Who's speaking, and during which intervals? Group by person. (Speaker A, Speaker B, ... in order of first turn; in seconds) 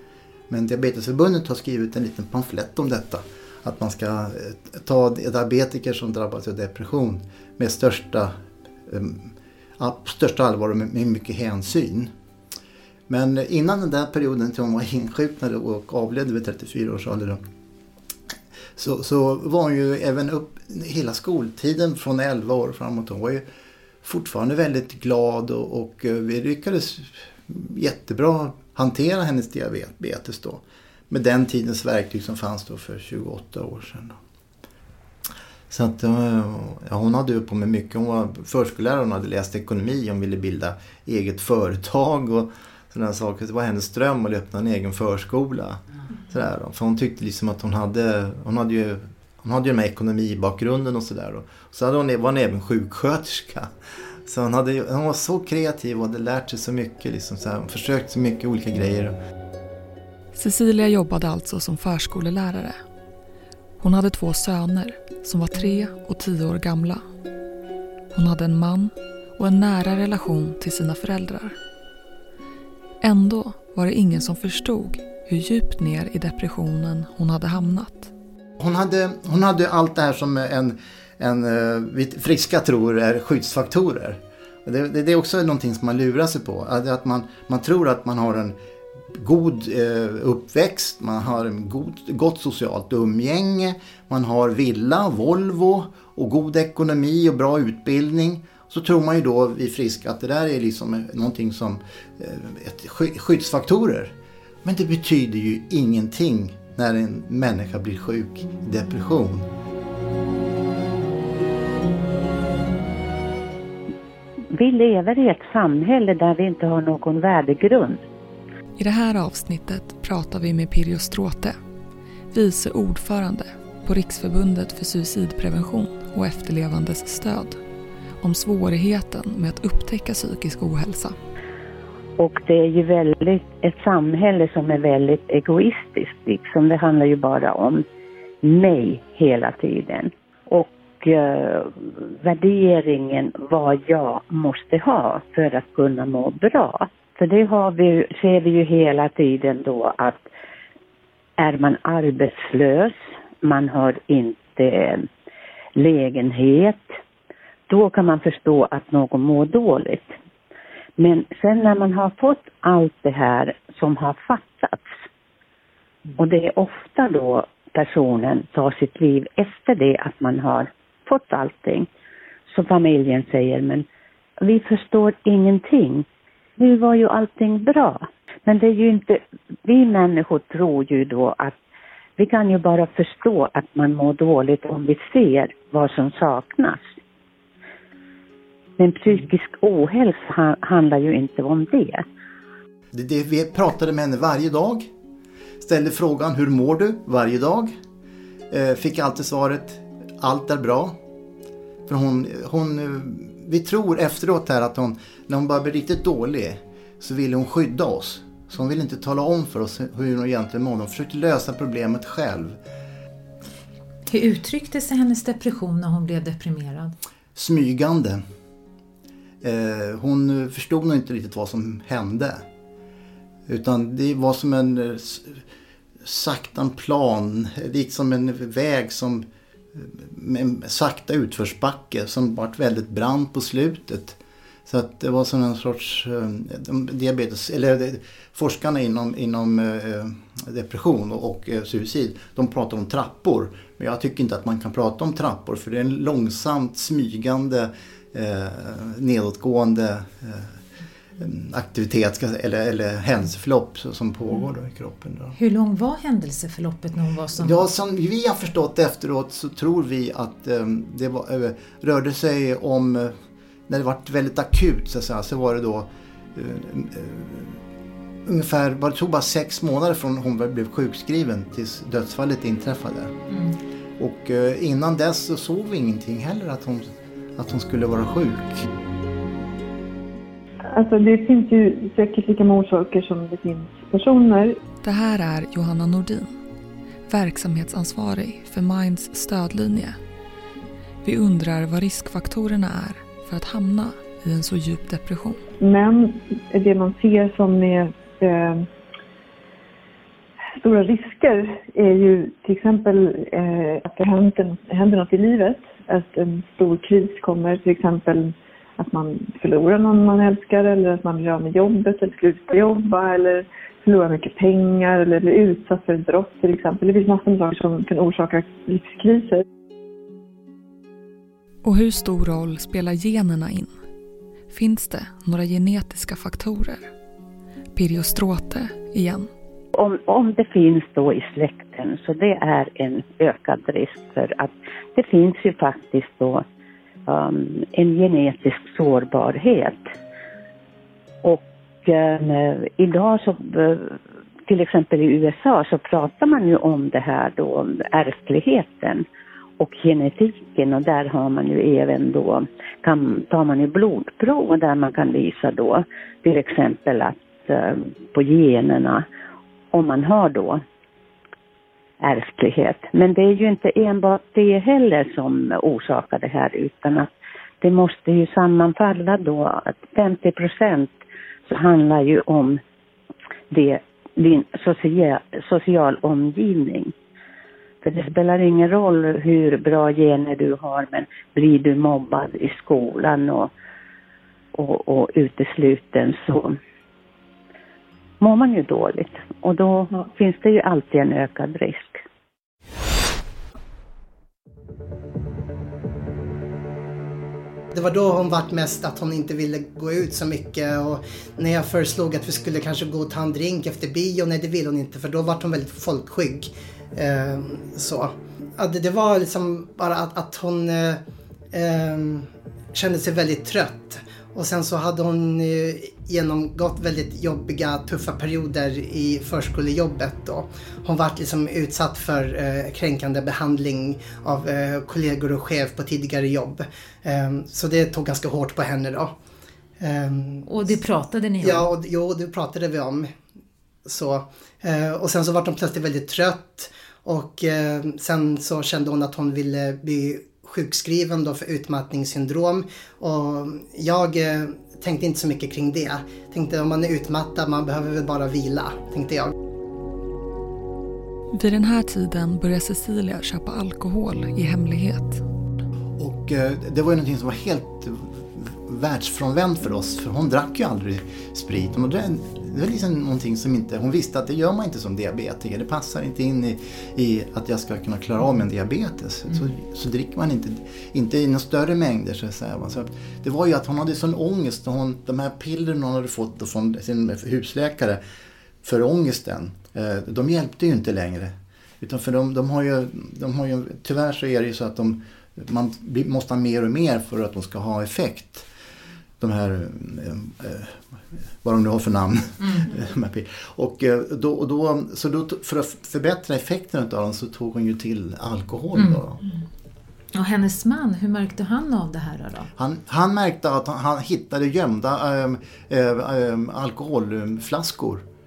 Speaker A: 0.5-8.3, 8.9-12.1, 13.1-17.4, 18.8-23.4, 24.0-34.2, 35.7-53.7, 54.2-59.1, 78.6-88.5, 89.1-109.5, 192.9-194.9, 195.6-197.7, 198.5-200.9, 201.8-212.6, 217.3-218.2, 219.4-222.4, 223.5-225.4, 226.0-250.6, 251.2-255.3, 257.4-263.1, 263.7-267.6, 268.2-273.1, 274.0-278.7, 456.0-478.0, 478.6-488.5, 489.2-490.8, 491.4-499.2, 502.6-508.0
Speaker B: 60.3-62.8, 63.8-67.0, 68.1-71.5, 73.0-78.1, 118.8-121.5, 122.3-127.6, 128.2-131.2, 284.8-286.4, 287.1-290.0, 291.0-295.4, 321.6-323.7, 324.5-326.9, 327.7-329.3, 451.3-455.2
Speaker C: 114.5-118.0, 132.2-137.8, 138.4-150.2, 151.4-155.1, 155.8-156.9, 157.7-160.1, 161.0-164.8, 166.2-171.9, 172.5-173.8, 174.4-176.1, 176.6-181.6, 182.2-186.8, 188.8-192.0, 329.7-336.4, 337.1-339.8, 341.2-349.1, 349.6-359.0, 359.7-360.6, 362.0-367.1, 367.6-370.9, 371.5-372.6, 373.5-376.9, 377.8-383.5, 384.5-386.6, 388.2-392.0
Speaker D: 214.1-216.9, 255.3-257.6, 273.3-273.5, 430.4-431.7, 492.4-492.7, 498.8-499.3, 500.1-502.5
Speaker E: 280.7-284.6, 295.6-298.7, 300.6-319.4
Speaker F: 397.7-411.0, 411.5-429.1, 429.8-430.5, 431.4-433.1, 433.9-449.3